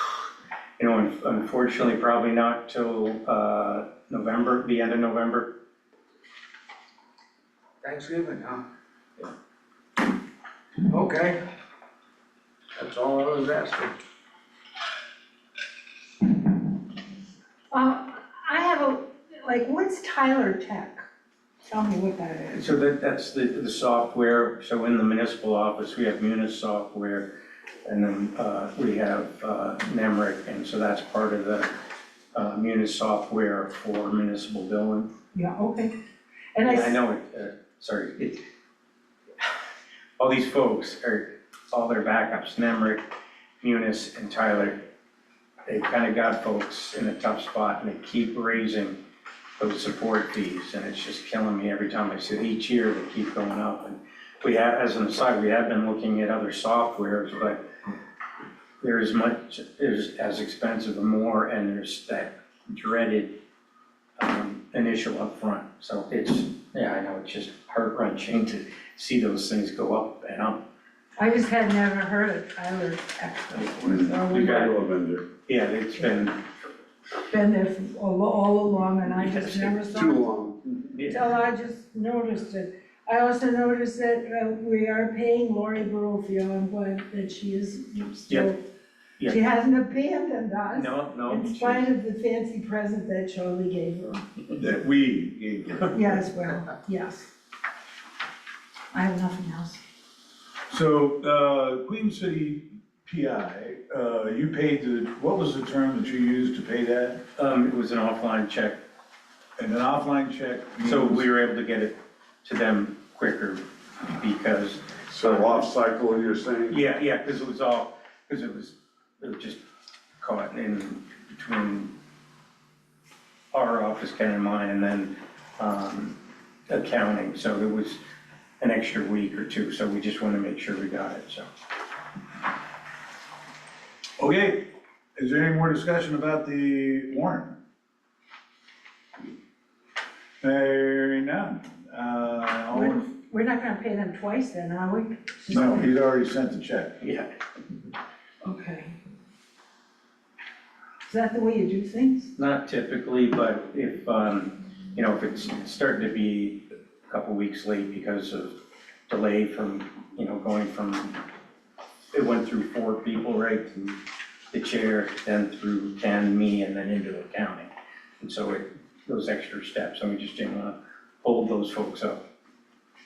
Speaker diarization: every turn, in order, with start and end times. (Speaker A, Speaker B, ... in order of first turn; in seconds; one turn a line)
Speaker A: 0.8-5.5
Speaker B: 7.8-8.6
Speaker B: 10.8-11.4
Speaker B: 12.8-13.9
Speaker C: 17.7-21.0
Speaker C: 21.6-22.6
Speaker A: 22.5-27.3
Speaker A: 27.9-31.7
Speaker A: 32.3-35.1
Speaker C: 35.3-35.9
Speaker C: 36.5-37.0
Speaker A: 36.6-38.4
Speaker A: 40.2-43.0
Speaker A: 43.6-44.8
Speaker A: 45.7-49.0
Speaker A: 49.6-57.7
Speaker A: 58.8-63.4
Speaker A: 64.2-70.6
Speaker C: 71.2-74.6
Speaker D: 73.8-75.2
Speaker A: 74.3-74.8
Speaker A: 75.5-76.4
Speaker C: 77.3-80.2
Speaker A: 79.3-79.8
Speaker D: 79.8-80.6
Speaker A: 80.7-81.2
Speaker C: 81.1-88.6
Speaker C: 89.2-94.2
Speaker A: 90.7-91.9
Speaker E: 94.5-96.2
Speaker C: 95.9-97.3
Speaker C: 98.9-99.8
Speaker E: 100.7-107.2
Speaker A: 107.4-108.8
Speaker E: 109.6-111.3
Speaker A: 110.8-115.7
Speaker D: 115.1-116.8
Speaker A: 116.7-119.6
Speaker A: 120.2-121.9
Speaker A: 123.5-128.0
Speaker A: 128.6-131.5
Speaker E: 134.2-134.6
Speaker E: 135.2-137.6
Speaker E: 140.4-143.0
Speaker C: 142.7-145.9
Speaker E: 145.5-147.0
Speaker A: 147.0-147.3
Speaker C: 148.4-149.0
Speaker C: 151.1-152.3
Speaker A: 152.4-161.2
Speaker A: 162.1-164.0
Speaker A: 164.5-167.7
Speaker A: 168.2-172.2